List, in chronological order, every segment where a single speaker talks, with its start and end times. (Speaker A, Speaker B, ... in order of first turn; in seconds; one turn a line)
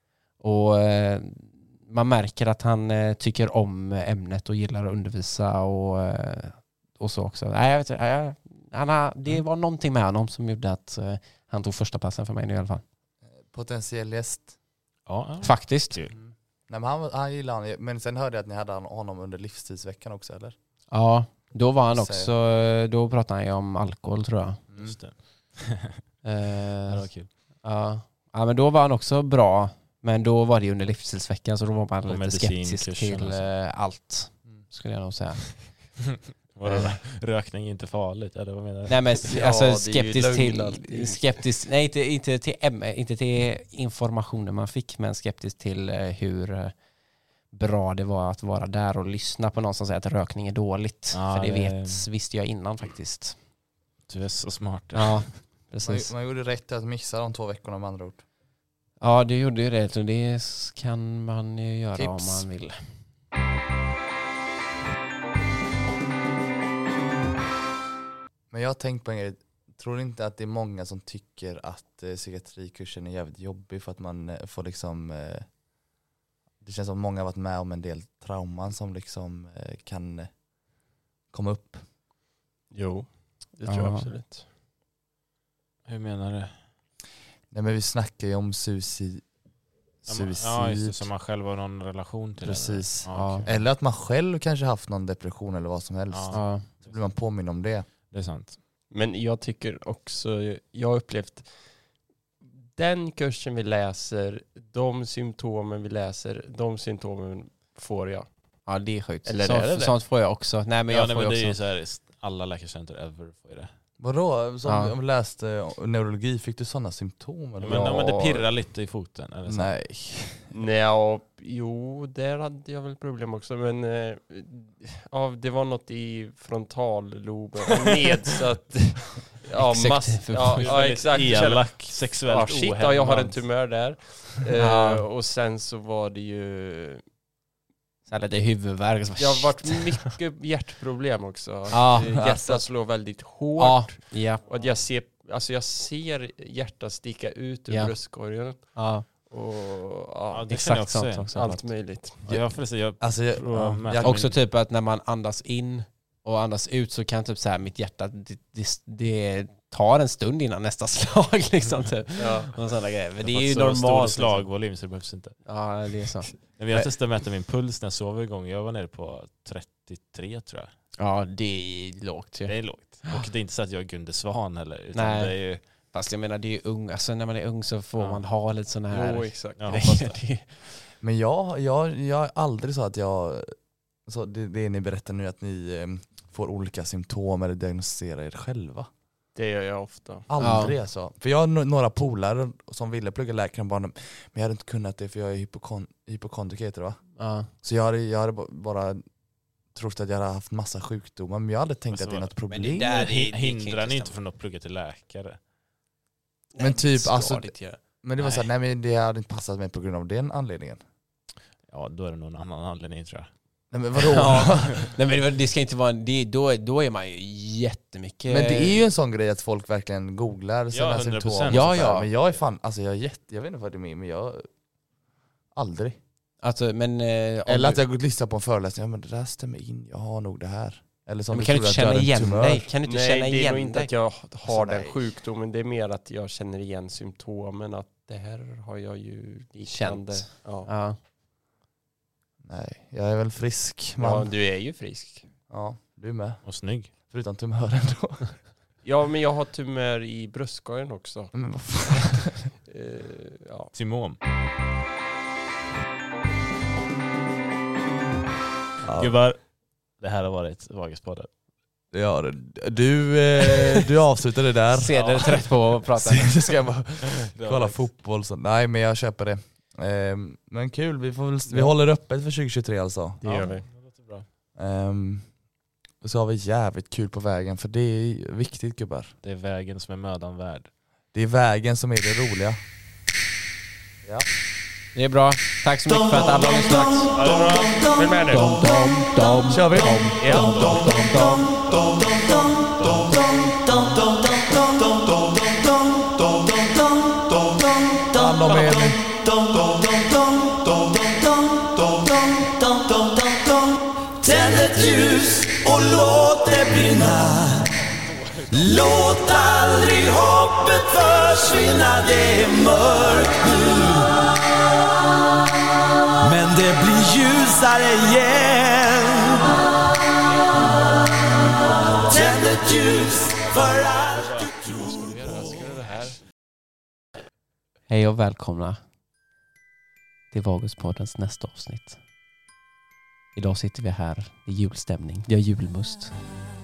Speaker A: 0.4-12.8
Speaker B: 13.5-14.5
Speaker C: 15.1-16.2
Speaker A: 15.4-16.0
Speaker B: 16.2-20.6
Speaker A: 20.9-24.6
Speaker B: 21.9-22.3
Speaker C: 24.8-26.0
Speaker A: 26.2-27.1
Speaker C: 26.9-27.3
Speaker A: 27.6-35.7
Speaker C: 32.0-33.5
Speaker C: 36.5-39.2
Speaker A: 36.7-37.0
Speaker A: 38.9-46.7
Speaker D: 39.3-41.4
Speaker A: 47.5-53.4
Speaker C: 51.1-52.1
Speaker C: 54.1-55.2
Speaker A: 54.9-56.1
Speaker B: 55.8-58.2
Speaker A: 59.0-62.8
Speaker B: 62.0-62.4
Speaker B: 68.5-75.5
Speaker B: 76.6-80.3
Speaker B: 81.3-81.8
Speaker D: 82.7-84.5
Speaker A: 83.7-84.1
Speaker C: 85.9-86.6
Speaker B: 87.5-89.2
Speaker B: 90.1-91.1
Speaker C: 90.1-93.6
Speaker B: 92.4-97.9
Speaker A: 93.1-93.5
Speaker C: 96.1-97.0
Speaker A: 96.3-96.7
Speaker C: 98.1-98.6
Speaker D: 98.9-101.6
Speaker D: 102.6-108.3
Speaker A: 108.7-111.6
Speaker D: 109.2-110.0
Speaker C: 110.9-113.7
Speaker B: 114.0-118.1
Speaker A: 114.7-115.0
Speaker C: 117.6-119.8
Speaker A: 117.7-118.5
Speaker B: 119.5-120.5
Speaker D: 120.5-137.0
Speaker A: 129.6-130.9
Speaker C: 130.6-133.4
Speaker A: 134.6-135.1
Speaker A: 138.1-140.2
Speaker D: 139.2-150.5
Speaker A: 141.7-142.7
Speaker A: 143.6-144.5
Speaker A: 147.7-149.1
Speaker C: 150.3-151.4
Speaker A: 150.5-151.7
Speaker D: 151.3-152.2
Speaker C: 152.2-154.4
Speaker B: 152.3-154.2
Speaker A: 154.0-164.5
Speaker D: 162.2-162.5
Speaker C: 163.2-165.4
Speaker A: 165.5-166.9
Speaker C: 166.6-170.7
Speaker A: 171.0-173.3
Speaker C: 172.5-175.6
Speaker A: 174.9-180.5
Speaker C: 178.0-178.2
Speaker D: 178.9-180.2
Speaker C: 179.6-179.9
Speaker B: 181.0-188.9
Speaker D: 189.3-190.3
Speaker B: 190.3-197.0
Speaker A: 190.4-190.8
Speaker A: 197.2-197.5
Speaker B: 197.6-199.0
Speaker B: 199.7-202.9
Speaker C: 201.9-202.3
Speaker A: 202.5-204.2
Speaker C: 202.9-205.4
Speaker A: 206.5-208.5
Speaker B: 206.6-210.8
Speaker C: 211.7-213.3
Speaker B: 213.7-214.9
Speaker C: 214.0-214.9
Speaker A: 214.3-218.8
Speaker B: 218.3-224.5
Speaker C: 220.7-221.7
Speaker A: 221.5-222.1
Speaker B: 225.5-226.0
Speaker A: 226.4-227.8
Speaker B: 227.5-232.7
Speaker A: 231.3-233.9
Speaker D: 232.8-240.7
Speaker A: 234.5-235.1
Speaker A: 239.7-241.0
Speaker B: 242.4-244.3
Speaker D: 244.0-245.3
Speaker B: 245.5-248.4
Speaker C: 246.4-246.9
Speaker D: 248.8-253.7
Speaker B: 251.3-252.4
Speaker C: 253.7-254.2
Speaker B: 258.8-259.2
Speaker C: 258.9-259.4
Speaker C: 260.0-261.3
Speaker B: 261.9-265.4
Speaker A: 264.7-266.4
Speaker C: 264.9-265.4
Speaker B: 265.9-273.2
Speaker C: 267.0-267.9
Speaker D: 273.2-273.7
Speaker C: 273.3-274.3
Speaker B: 274.6-275.3
Speaker B: 276.0-279.1
Speaker C: 279.2-280.7
Speaker B: 281.1-282.6
Speaker A: 284.9-287.1
Speaker E: 285.9-288.5
Speaker C: 287.1-287.8
Speaker D: 288.0-288.6
Speaker A: 288.3-290.0
Speaker E: 289.3-307.8
Speaker B: 289.5-290.9
Speaker D: 290.2-290.7
Speaker C: 290.3-290.9
Speaker B: 298.1-299.0
Speaker C: 308.0-308.7
Speaker E: 308.5-314.3
Speaker E: 316.2-319.6
Speaker E: 322.1-325.5
Speaker C: 323.9-326.2
Speaker A: 327.9-328.8
Speaker A: 330.3-332.0
Speaker A: 333.4-336.1